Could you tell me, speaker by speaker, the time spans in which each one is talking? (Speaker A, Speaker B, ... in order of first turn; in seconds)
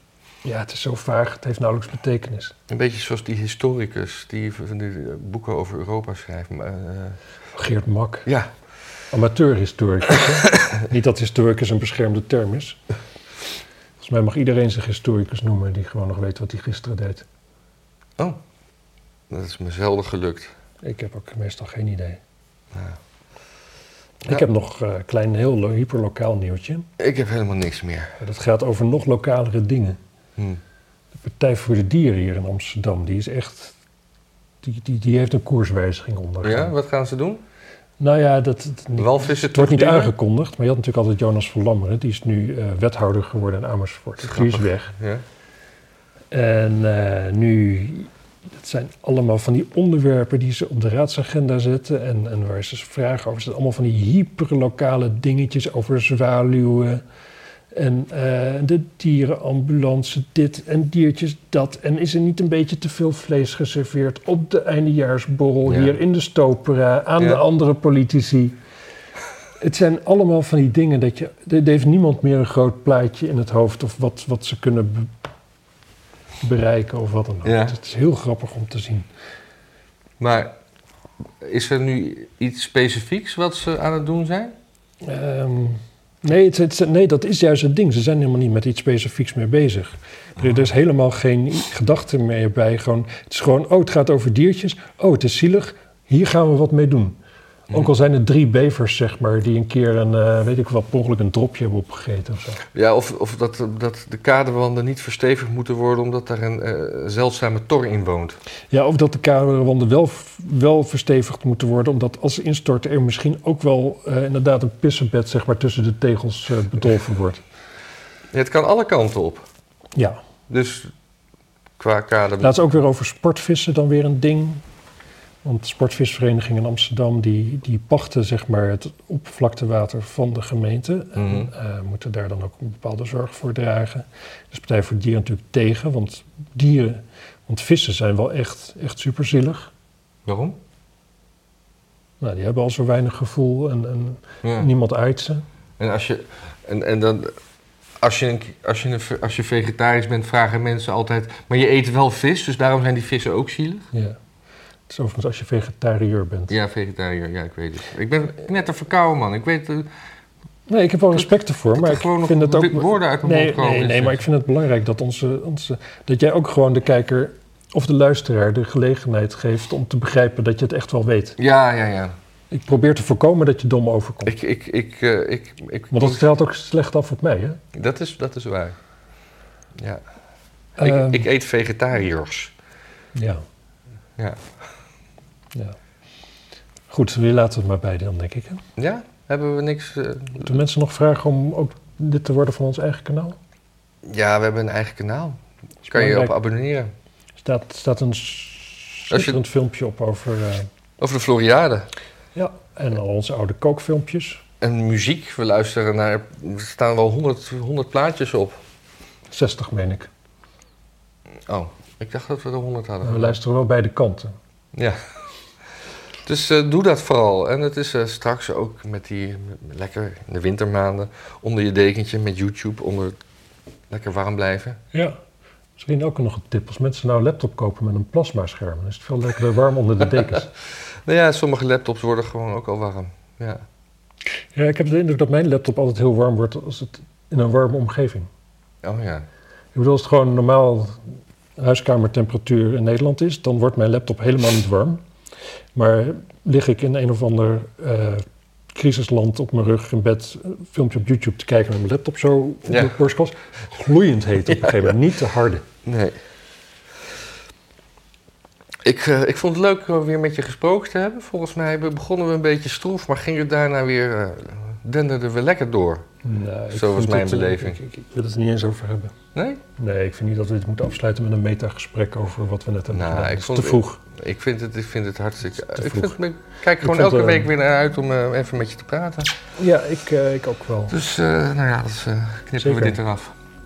Speaker A: 0.4-2.5, 7.5-8.3, 9.1-12.8, 14.0-17.2, 20.8-22.2, 24.2-26.9, 28.2-30.0, 31.2-33.7, 34.6-36.7, 38.0-44.9, 46.3-57.0, 57.7-68.5, 69.6-75.1, 76.4-79.1, 85.0-97.2, 97.7-102.6, 108.7-117.4, 122.4-124.6, 125.4-139.7, 142.2-145.4, 154.9-156.5, 160.7-171.4, 172.5-174.3, 175.9-177.6, 180.8-181.2, 183.1-183.4, 186.9-188.6, 190.4-193.4, 195.8-196.3, 197.4-200.7, 202.3-204.4, 209.3-210.1, 213.0-214.3, 224.9-225.2, 225.8-230.5, 234.5-238.3, 239.7-241.0, 241.6-245.0, 245.7-255.6, 266.2-269.1, 269.8-274.0, 275.5-276.2, 276.8-277.5, 279.6-281.0, 282.6-283.0
Speaker B: 2.7-7.2, 19.3-20.5, 22.7-23.0, 27.0-28.1, 36.4-37.4, 39.0-40.1, 44.2-45.2, 65.7-66.0, 77.4-77.7, 80.2-80.5, 81.4-84.5, 102.7-108.4, 118.3-119.5, 120.5-120.9, 121.8-122.6, 131.2-131.5, 140.2-140.6, 144.4-144.7, 145.8-147.3, 148.0-153.9, 156.5-159.9, 161.7-164.2, 171.4-172.2, 174.2-176.3, 177.7-178.8, 179.7-180.0, 180.8-182.5, 184.2-184.4, 188.8-190.6, 194.0-196.9, 199.1-199.4, 201.0-201.9, 204.6-208.6, 211.4-213.3, 214.7-215.0, 216.2-223.2, 223.9-224.8, 231.0-233.6, 238.8-239.2, 252.7-252.9, 254.5-254.9, 255.8-256.2, 258.8-266.1, 266.7-267.8, 269.3-269.6, 272.9-279.3, 280.9-283.3